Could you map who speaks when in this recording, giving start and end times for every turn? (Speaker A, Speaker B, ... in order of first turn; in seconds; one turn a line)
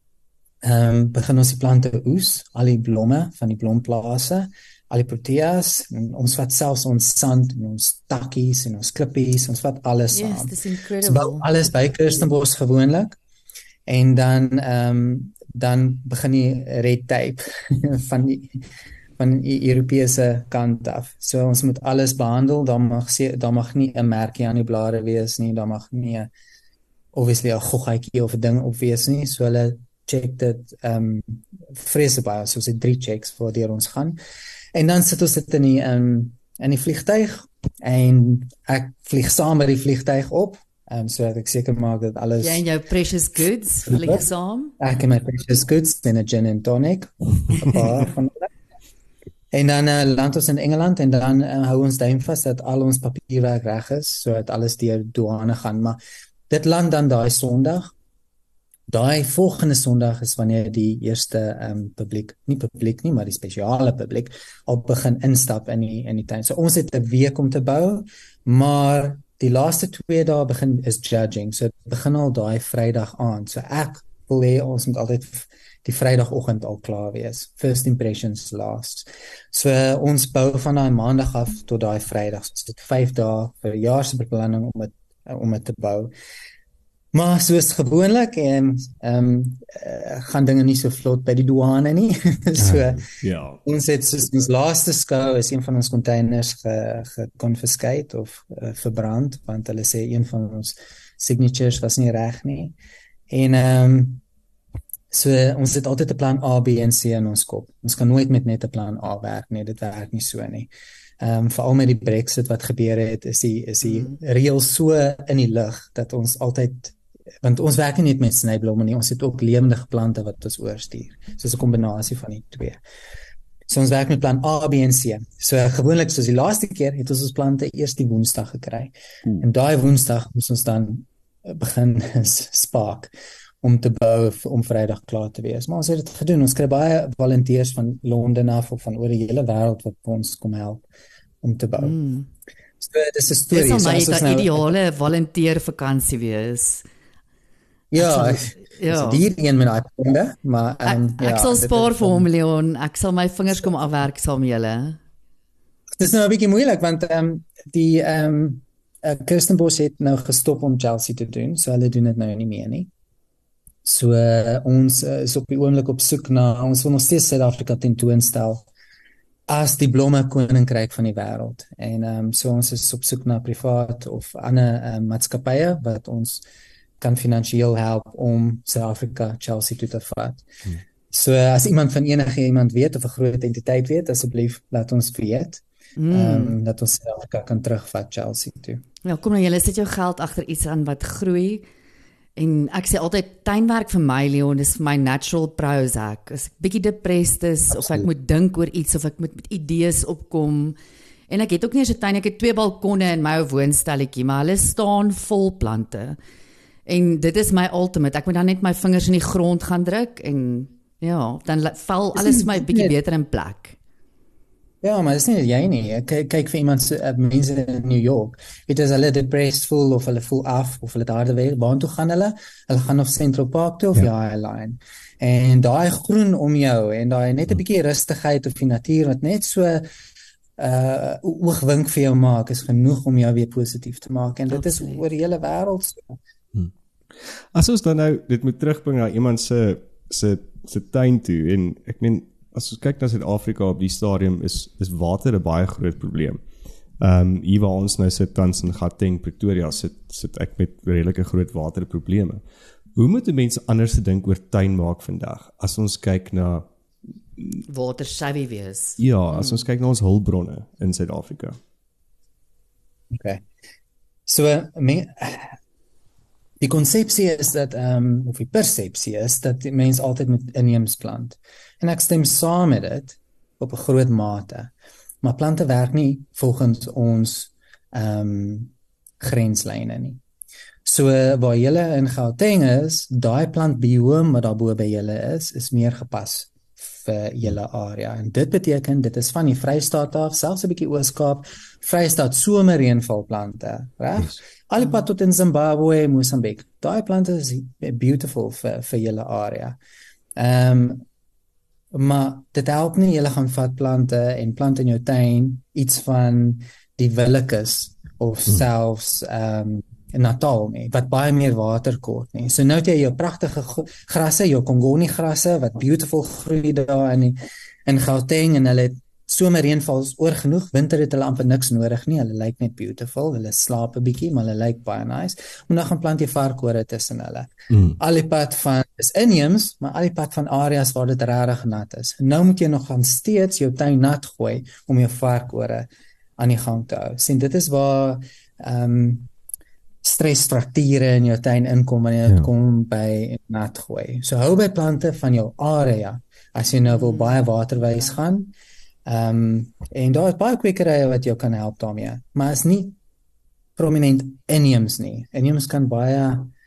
Speaker A: 0.6-13.2
Speaker B: 10.1-11.5
Speaker A: 13.9-18.6
Speaker A: 19.2-26.3
Speaker A: 27.1-34.2
Speaker A: 34.7-42.6
Speaker B: 42.4-44.7
Speaker A: 43.9-44.2
Speaker A: 44.8-48.5
Speaker A: 49.5-56.0
Speaker A: 56.5-57.9
Speaker A: 58.9-86.1
Speaker A: 87.1-93.0
Speaker C: 92.6-93.6
Speaker A: 93.6-102.7
Speaker A: 103.3-104.2
Speaker A: 105.1-122.8
Speaker B: 113.8-114.2
Speaker A: 123.7-133.1
Speaker A: 133.6-140.8
Speaker A: 141.4-141.9
Speaker B: 141.8-142.3
Speaker A: 142.8-144.7
Speaker B: 143.5-146.8
Speaker A: 147.9-152.3
Speaker B: 147.9-149.2
Speaker B: 150.8-155.0
Speaker A: 156.0-162.9
Speaker A: 163.8-168.7
Speaker A: 169.5-176.4
Speaker A: 177.0-180.5
Speaker A: 181.1-188.8
Speaker B: 186.0-186.6
Speaker B: 189.0-191.7
Speaker B: 192.3-200.8
Speaker A: 197.7-198.1
Speaker B: 201.3-206.2
Speaker B: 206.8-213.8
Speaker A: 212.1-212.9
Speaker A: 214.8-229.8
Speaker A: 230.6-236.1
Speaker B: 234.5-235.0
Speaker C: 236.5-246.4
Speaker C: 247.0-252.4
Speaker C: 252.9-256.7
Speaker B: 257.7-259.6
Speaker C: 259.0-261.6
Speaker A: 263.1-263.4
Speaker A: 264.3-265.5
Speaker A: 266.6-274.7
Speaker A: 275.2-280.2
Speaker A: 280.8-299.8
Speaker A: 300.4-301.0
Speaker A: 301.9-339.3
Speaker C: 327.7-327.9
Speaker A: 340.0-348.5
Speaker B: 346.9-347.4
Speaker A: 349.1-352.9
Speaker A: 353.8-356.5